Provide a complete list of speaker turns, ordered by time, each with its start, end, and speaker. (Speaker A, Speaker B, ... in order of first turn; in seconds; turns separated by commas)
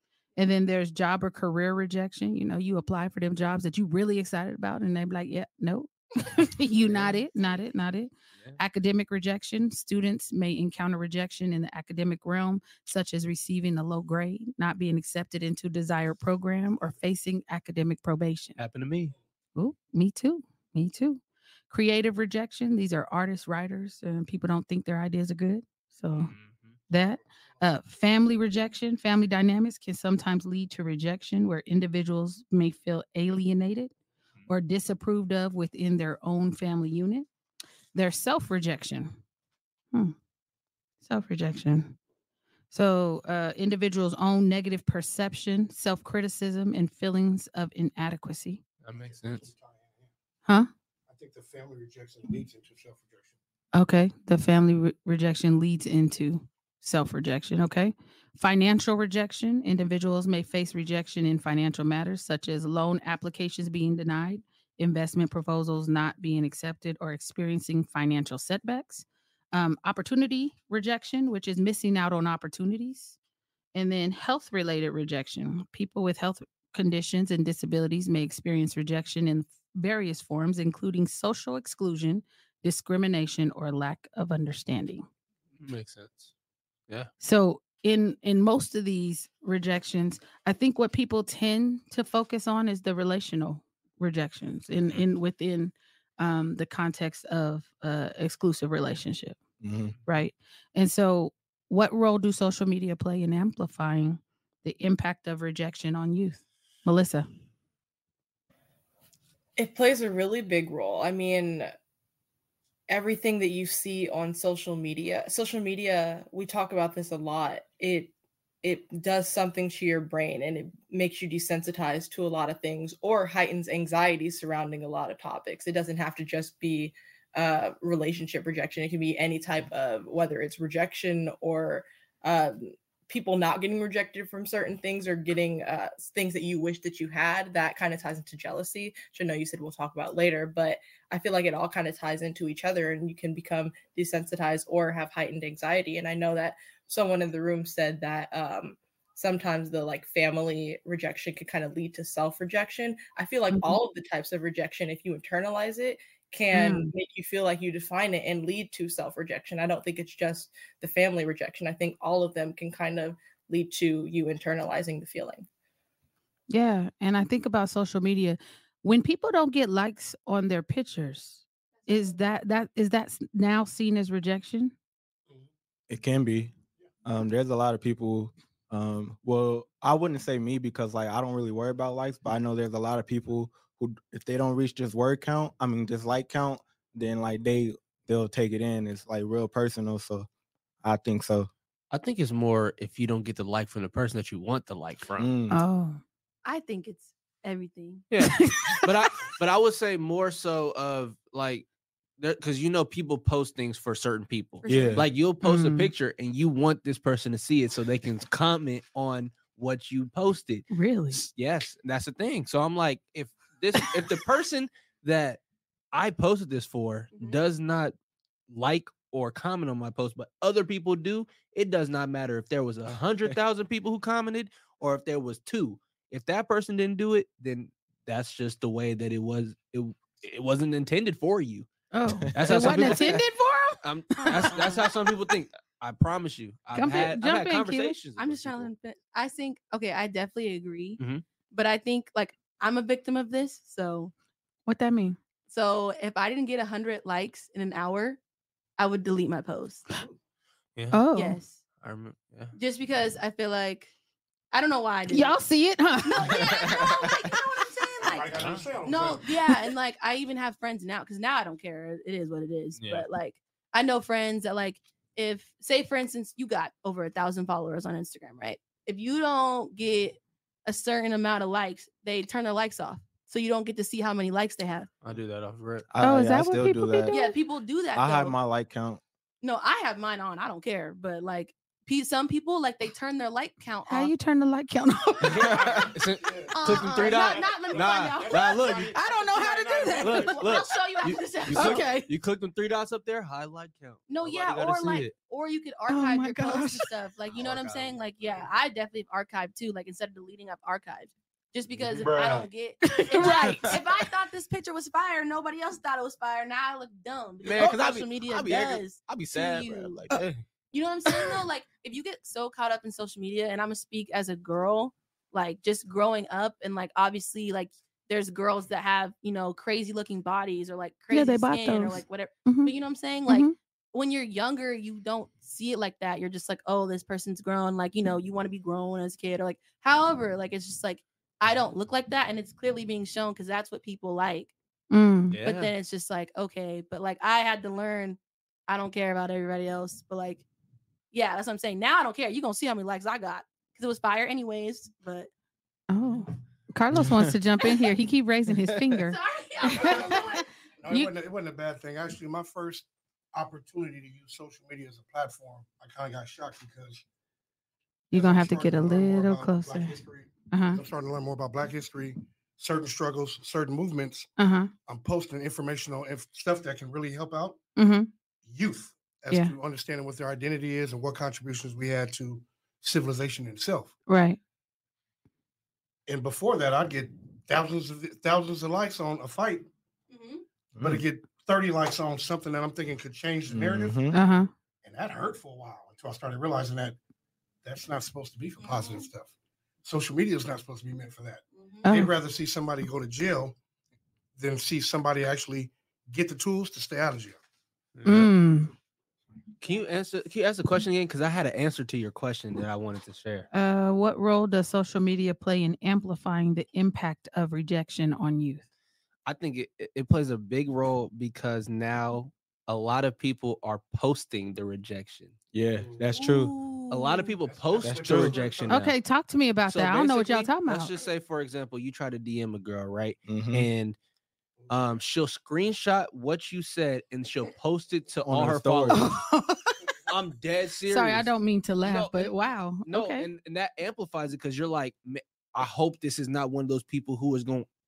Speaker A: 0.4-18.6, Speaker B: 18.6-19.2, Speaker A: 19.6-26.3, Speaker B: 26.2-26.8, Speaker A: 26.9-33.9, Speaker A: 34.5-37.3, Speaker A: 37.9-39.2, Speaker A: 41.0-42.0, Speaker A: 42.7-48.6, Speaker B: 48.8-49.5, Speaker C: 49.0-50.1, Speaker C: 51.1-53.3, Speaker A: 53.7-73.2, Speaker A: 73.7-85.1, Speaker B: 85.6-86.3, Speaker A: 87.2-99.4, Speaker D: 99.6-99.9, Speaker A: 100.1-107.3, Speaker E: 109.6-111.7, Speaker E: 112.9-165.5, Speaker A: 153.5-153.8, Speaker A: 156.5-156.9, Speaker A: 166.5-174.7, Speaker D: 175.9-176.5, Speaker D: 177.1-190.3, Speaker D: 190.8-191.5, Speaker B: 191.9-195.3, Speaker D: 195.2-195.6, Speaker A: 195.5-196.0, Speaker F: 196.4-198.1, Speaker B: 198.1-201.7, Speaker A: 198.2-198.8, Speaker B: 202.2-215.4, Speaker F: 204.6-205.1, Speaker D: 204.7-205.1, Speaker A: 205.4-205.9, Speaker A: 210.7-211.2, Speaker B: 215.9-217.9, Speaker F: 217.2-217.4, Speaker B: 218.5-231.7, Speaker A: 231.9-234.6, Speaker D: 232.3-233.0, Speaker B: 232.3-233.2, Speaker B: 233.8-238.7, Speaker F: 234.2-234.9, Speaker A: 236.8-237.9, Speaker F: 238.2-241.0, Speaker B: 241.0-241.2, Speaker F: 241.5-244.1, Speaker A: 244.7-245.2, Speaker F: 245.5-248.2, Speaker F: 248.8-249.9, Speaker B: 250.8-251.0, Speaker A: 250.9-251.4, Speaker F: 251.1-251.6, Speaker B: 251.8-252.6, Speaker F: 252.6-253.9, Speaker F: 254.5-255.3, Speaker A: 255.1-256.4, Speaker F: 256.1-274.9, Speaker D: 256.6-257.3, Speaker C: 258.0-259.3, Speaker B: 258.3-258.7, Speaker B: 262.8-263.1, Speaker B: 275.0-275.9, Speaker D: 275.9-277.2, Speaker A: 276.0-277.3, Speaker F: 277.1-278.3, Speaker D: 277.9-279.0, Speaker F: 279.4-284.1, Speaker A: 283.9-285.6, Speaker C: 285.2-290.6, Speaker D: 285.3-285.8, Speaker B: 285.9-288.9, Speaker F: 286.5-288.8, Speaker A: 288.9-290.3, Speaker F: 290.0-291.9, Speaker B: 290.0-295.1, Speaker A: 291.5-292.1, Speaker F: 294.1-310.1, Speaker A: 295.9-296.9, Speaker C: 297.4-298.5, Speaker B: 297.5-297.8, Speaker C: 301.8-302.5, Speaker A: 302.8-303.8, Speaker B: 307.4-310.4, Speaker F: 310.7-334.5, Speaker A: 321.1-322.7, Speaker A: 323.3-323.6, Speaker A: 334.9-335.4, Speaker B: 335.3-335.7, Speaker F: 335.4-340.4, Speaker F: 341.1-345.3, Speaker A: 345.9-351.1, Speaker D: 346.9-347.3, Speaker D: 348.6-349.0, Speaker F: 349.1-350.5, Speaker C: 349.7-357.1, Speaker A: 358.1-360.0, Speaker C: 358.1-364.3, Speaker A: 360.5-360.8, Speaker A: 364.4-364.7, Speaker C: 364.9-367.6, Speaker A: 367.8-368.1, Speaker C: 368.4-373.9, Speaker A: 374.1-374.4, Speaker C: 376.1-379.7, Speaker F: 380.1-380.4, Speaker D: 380.8-381.0, Speaker C: 380.8-384.0, Speaker D: 383.5-384.2, Speaker A: 384.1-384.5, Speaker C: 384.8-387.0, Speaker C: 387.6-389.3, Speaker F: 388.6-389.1, Speaker C: 389.8-393.6, Speaker F: 391.5-391.9, Speaker A: 391.8-392.1, Speaker C: 394.4-397.4, Speaker B: 397.9-398.3, Speaker A: 398.1-398.7, Speaker B: 399.6-403.5, Speaker A: 403.5-408.6, Speaker B: 409.3-415.3, Speaker D: 415.5-416.5, Speaker C: 415.8-416.2, Speaker F: 416.1-417.3, Speaker B: 416.9-418.9, Speaker C: 417.4-418.8, Speaker D: 417.8-418.5, Speaker A: 418.7-420.9, Speaker B: 419.7-423.9, Speaker D: 423.3-423.7, Speaker B: 424.7-429.1, Speaker D: 428.2-429.1, Speaker A: 428.9-429.8, Speaker B: 430.1-431.3, Speaker A: 430.9-433.3, Speaker B: 431.8-432.3, Speaker B: 432.9-437.7